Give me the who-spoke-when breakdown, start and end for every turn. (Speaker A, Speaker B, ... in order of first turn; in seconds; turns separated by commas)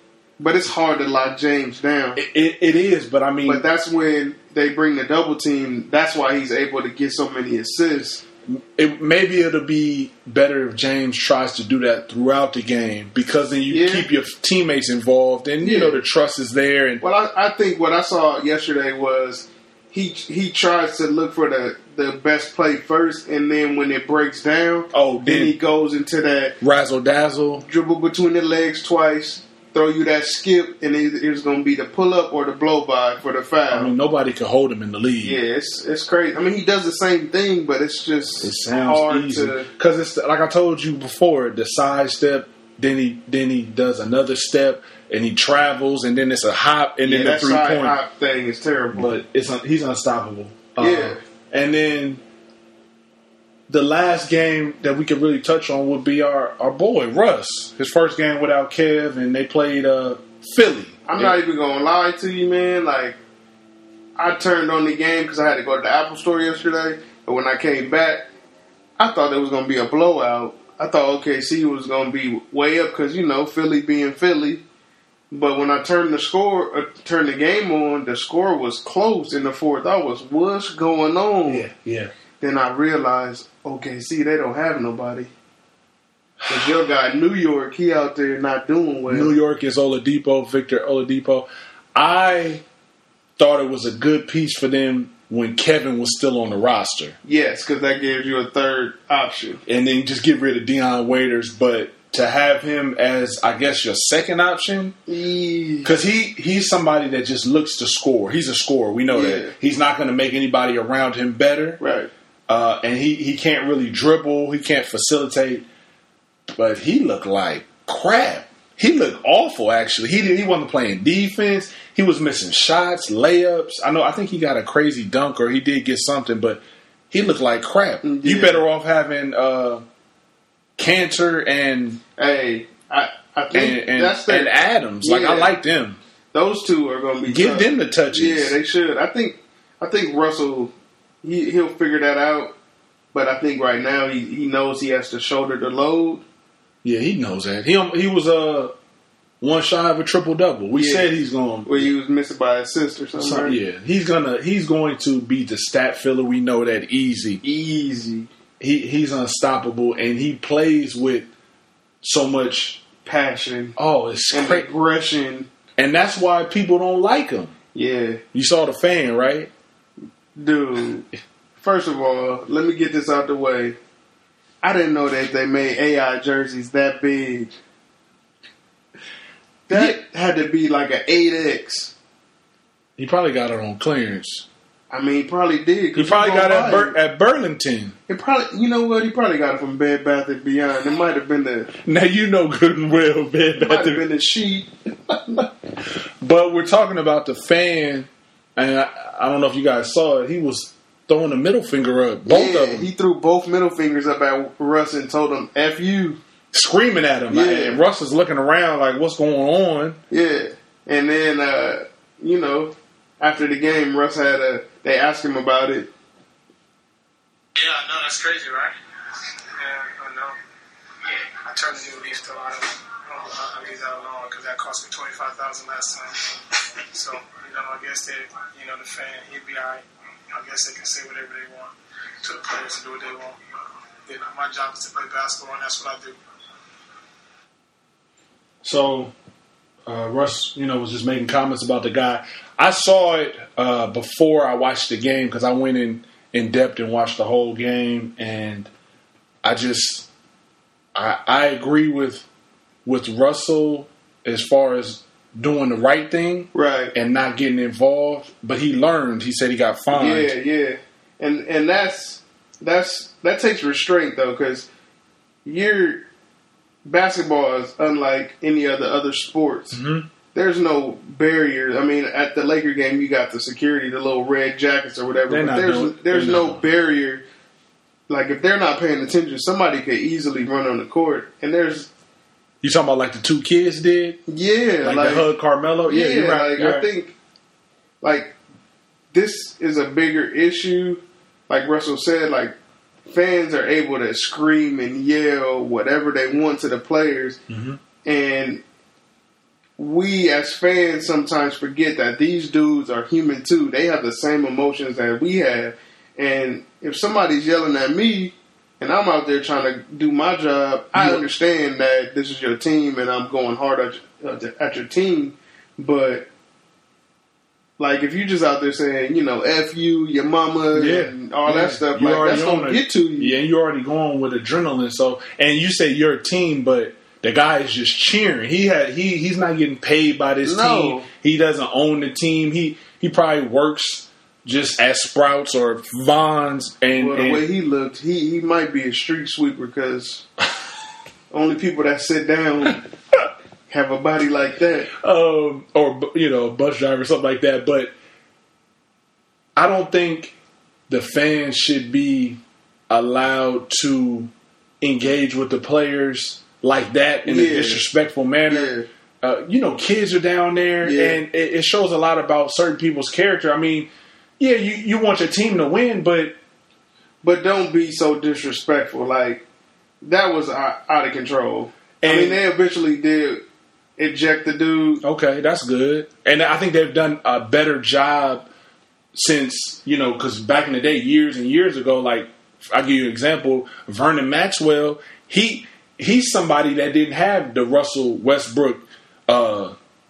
Speaker A: 0.4-2.2, Speaker B: 2.1-3.6, Speaker A: 3.5-8.2, Speaker B: 8.5-17.0, Speaker A: 13.7-14.1, Speaker A: 15.6-16.0, Speaker A: 17.0-26.6, Speaker B: 24.9-25.6, Speaker B: 26.6-27.6, Speaker A: 27.6-33.9, Speaker B: 33.7-35.4, Speaker A: 35.2-39.7, Speaker B: 38.4-48.0, Speaker A: 47.0-49.1, Speaker B: 48.9-52.2, Speaker A: 50.8-51.2, Speaker B: 53.7-61.4, Speaker A: 61.0-63.2, Speaker A: 64.2-68.3, Speaker A: 69.0-74.6, Speaker A: 75.3-81.7, Speaker B: 81.5-82.1, Speaker A: 82.4-85.3, Speaker B: 86.4-86.8, Speaker A: 86.5-89.3, Speaker B: 89.1-92.6, Speaker B: 93.4-97.2, Speaker A: 97.2-99.6, Speaker B: 99.7-105.0, Speaker A: 105.1-105.9, Speaker B: 105.8-111.8, Speaker A: 109.1-109.5, Speaker A: 111.8-112.1, Speaker B: 112.5-115.7, Speaker B: 116.5-129.8, Speaker A: 128.0-128.6, Speaker B: 130.8-132.0, Speaker A: 132.2-135.5, Speaker B: 133.5-136.0, Speaker A: 136.3-142.5, Speaker B: 137.3-138.6, Speaker A: 143.1-146.2, Speaker B: 146.8-148.7, Speaker B: 149.4-151.9, Speaker A: 150.7-151.1, Speaker A: 151.6-153.6, Speaker B: 153.2-157.4, Speaker A: 157.4-158.3, Speaker B: 158.6-161.3, Speaker B: 162.0-162.8, Speaker A: 163.0-163.7, Speaker B: 163.8-164.7, Speaker A: 164.3-165.5, Speaker B: 165.8-167.5, Speaker A: 167.7-168.2, Speaker B: 168.3-169.5, Speaker A: 170.4-171.1, Speaker A: 171.6-173.8, Speaker A: 174.6-177.5, Speaker B: 179.7-180.0, Speaker A: 179.7-181.9, Speaker B: 183.0-184.4, Speaker A: 184.9-187.0, Speaker B: 185.9-187.9, Speaker A: 188.1-191.7, Speaker B: 191.8-194.0, Speaker A: 193.6-195.4, Speaker B: 196.2-202.9, Speaker A: 202.2-206.2, Speaker B: 206.5-210.0, Speaker A: 207.3-207.8, Speaker A: 210.1-215.9, Speaker C: 217.6-218.7, Speaker C: 219.6-220.3, Speaker C: 221.0-233.4, Speaker C: 234.1-236.2, Speaker B: 238.6-239.1, Speaker B: 239.8-248.7, Speaker B: 249.4-250.1, Speaker B: 250.9-252.3, Speaker B: 252.8-260.3, Speaker A: 256.5-256.9, Speaker A: 259.9-264.7, Speaker A: 265.4-266.1, Speaker A: 266.8-269.8, Speaker B: 269.7-270.1, Speaker A: 270.3-277.2, Speaker B: 275.3-276.6, Speaker A: 278.1-281.9, Speaker B: 282.6-284.2, Speaker A: 284.3-285.3, Speaker B: 284.8-286.9, Speaker A: 285.9-287.1, Speaker A: 288.0-288.3, Speaker A: 289.1-292.5, Speaker A: 293.1-297.4, Speaker B: 297.5-297.8, Speaker A: 298.0-298.6, Speaker A: 299.8-316.3, Speaker B: 310.9-311.2, Speaker A: 317.8-323.4, Speaker B: 320.7-337.4, Speaker A: 330.4-331.1, Speaker A: 336.9-340.2, Speaker A: 341.3-342.8, Speaker A: 343.7-344.9, Speaker B: 344.9-347.9, Speaker B: 349.6-350.3, Speaker B: 350.9-366.3, Speaker A: 357.2-357.8, Speaker A: 358.5-358.9, Speaker A: 360.8-361.2, Speaker A: 367.2-369.4, Speaker A: 370.0-373.4, Speaker B: 372.0-372.4, Speaker A: 374.0-375.0, Speaker B: 375.0-378.5, Speaker B: 379.1-389.7